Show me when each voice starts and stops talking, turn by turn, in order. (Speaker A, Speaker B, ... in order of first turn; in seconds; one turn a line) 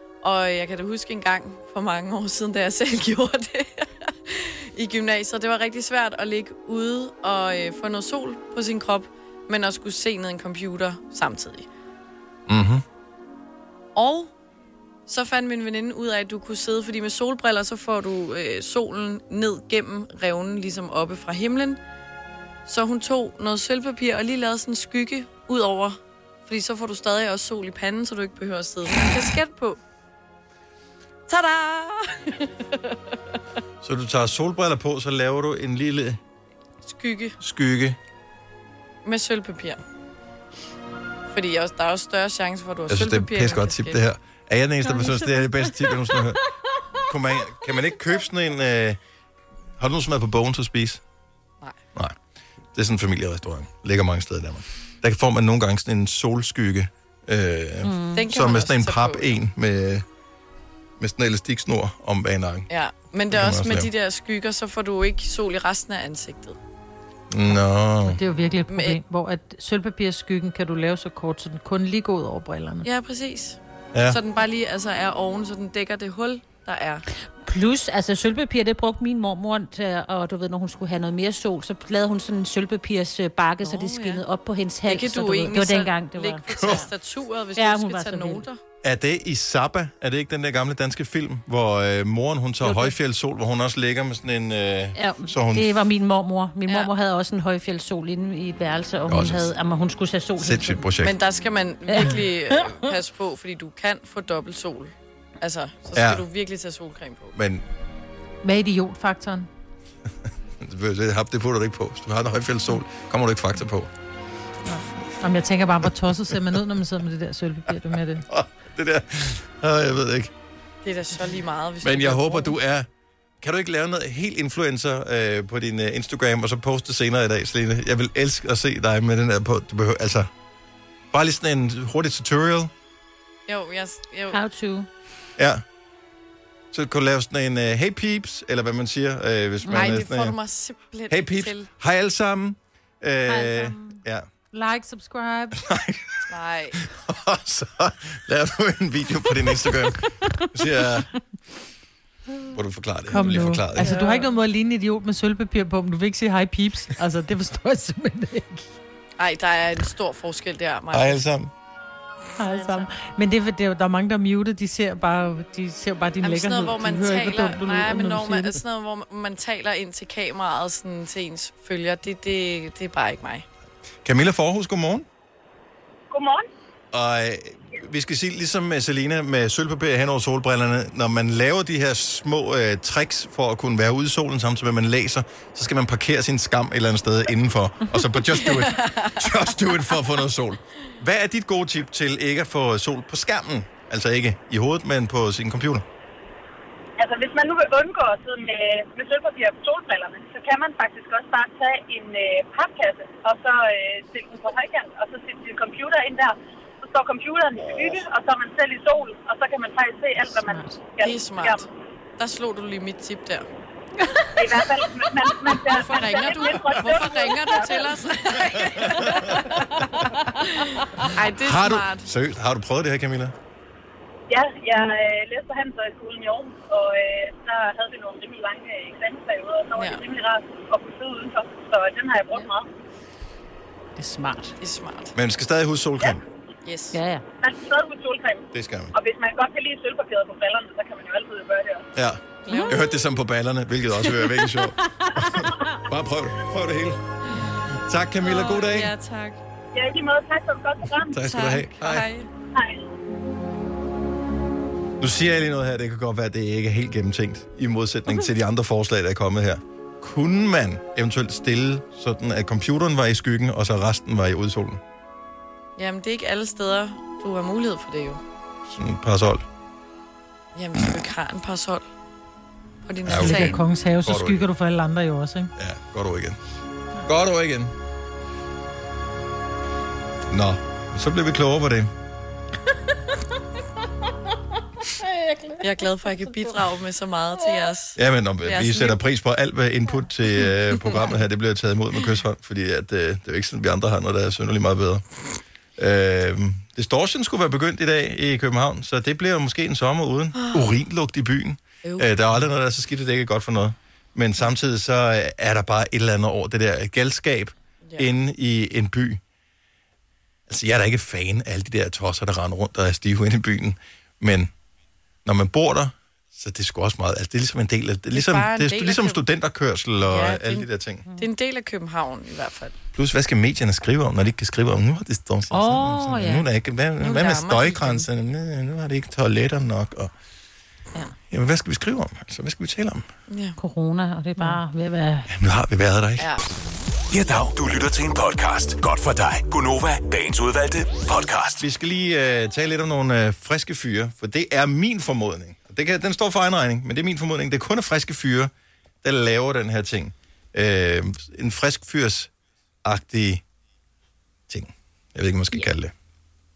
Speaker A: 0.2-11.7
Speaker B: 12.5-12.8
Speaker A: 13.9-14.3
Speaker A: 15.1-21.8
Speaker A: 22.7-29.8
Speaker A: 31.3-32.9
Speaker B: 33.8-36.2
Speaker A: 36.9-37.4
Speaker B: 37.4-38.0
Speaker A: 39.0-39.8
Speaker A: 41.3-44.0
Speaker B: 42.9-46.4
Speaker B: 47.1-49.0
Speaker B: 49.8-51.0
Speaker B: 52.7-60.0
Speaker C: 57.8-58.2
Speaker A: 58.1-59.4
Speaker B: 61.0-62.7
Speaker A: 62.7-66.6
Speaker B: 63.3-63.9
Speaker B: 67.3-68.2
Speaker D: 68.0-72.9
Speaker A: 68.7-69.0
Speaker A: 72.8-77.0
Speaker C: 77.4-86.9
Speaker A: 83.6-84.2
Speaker A: 84.8-88.6
Speaker B: 86.5-86.8
Speaker C: 87.6-88.5
Speaker B: 88.8-95.7
Speaker C: 95.0-100.8
Speaker B: 99.1-99.5
Speaker B: 100.4-101.2
Speaker A: 101.0-107.3
Speaker C: 101.9-102.8
Speaker B: 105.9-106.2
Speaker B: 107.3-107.7
Speaker D: 108.4-109.5
Speaker B: 110.6-113.9
Speaker D: 114.7-118.2
Speaker B: 118.3-120.3
Speaker A: 120.8-122.5
Speaker B: 121.8-122.9
Speaker B: 123.4-130.3
Speaker B: 131.1-132.7
Speaker A: 133.5-134.4
Speaker C: 134.3-134.9
Speaker B: 135.4-135.6
Speaker B: 136.7-140.4
Speaker A: 139.7-141.7
Speaker B: 141.1-144.3
Speaker C: 143.3-143.9
Speaker D: 144.5-145.6
Speaker B: 145.6-146.2
Speaker A: 146.3-146.8
Speaker B: 146.8-151.1
Speaker B: 152.5-153.9
Speaker D: 153.1-158.7
Speaker C: 153.8-154.3
Speaker A: 159.2-161.2
Speaker B: 160.9-161.5
Speaker D: 162.4-168.6
Speaker C: 162.4-162.8
Speaker A: 166.2-173.5
Speaker B: 174.1-175.1
Speaker E: 176.1-176.4
Speaker B: 176.9-195.8
Speaker A: 188.3-189.2
Speaker E: 197.0-211.7
Speaker A: 211.0-211.7
Speaker A: 212.2-213.5
Speaker E: 214.4-218.0
Speaker A: 215.5-219.4
Speaker B: 218.5-219.4
Speaker A: 220.4-222.1
Speaker B: 221.4-223.3
Speaker E: 224.3-232.7
Speaker A: 229.8-230.0
Speaker C: 234.0-234.6
Speaker A: 234.6-235.1
Speaker B: 235.2-236.2
Speaker A: 236.7-237.0
Speaker C: 236.9-237.2
Speaker E: 237.4-241.9
Speaker B: 238.5-238.9
Speaker B: 241.9-247.0
Speaker A: 242.5-243.0
Speaker C: 242.5-242.7
Speaker A: 244.0-244.3
Speaker B: 247.9-248.9
Speaker A: 248.2-249.4
Speaker E: 249.7-251.6
Speaker B: 251.0-252.1
Speaker A: 251.3-252.3
Speaker E: 252.6-252.8
Speaker B: 255.0-264.8
Speaker A: 265.8-268.2
Speaker B: 268.8-269.4
Speaker A: 270.6-271.9
Speaker A: 272.9-273.6
Speaker B: 273.0-274.5
Speaker D: 273.2-275.5
Speaker B: 275.6-276.4
Speaker B: 277.1-277.7
Speaker B: 280.3-281.9
Speaker A: 285.6-289.0
Speaker B: 288.0-295.0
Speaker B: 295.8-309.2
Speaker A: 300.4-300.7
Speaker A: 301.8-302.1
Speaker A: 307.8-308.1
Speaker B: 310.5-314.5
Speaker B: 315.2-321.0
Speaker A: 318.1-319.2
Speaker A: 320.0-322.8
Speaker B: 322.9-330.1
Speaker C: 325.5-326.4
Speaker A: 327.0-328.0
Speaker B: 331.3-333.1
Speaker A: 333.3-333.6
Speaker C: 333.6-335.3
Speaker D: 334.4-334.6
Speaker B: 335.3-336.3
Speaker A: 336.2-336.4
Speaker F: 337.1-341.6
Speaker B: 341.6-348.5
Speaker B: 349.0-352.3
Speaker B: 352.8-353.4
Speaker B: 354.5-355.9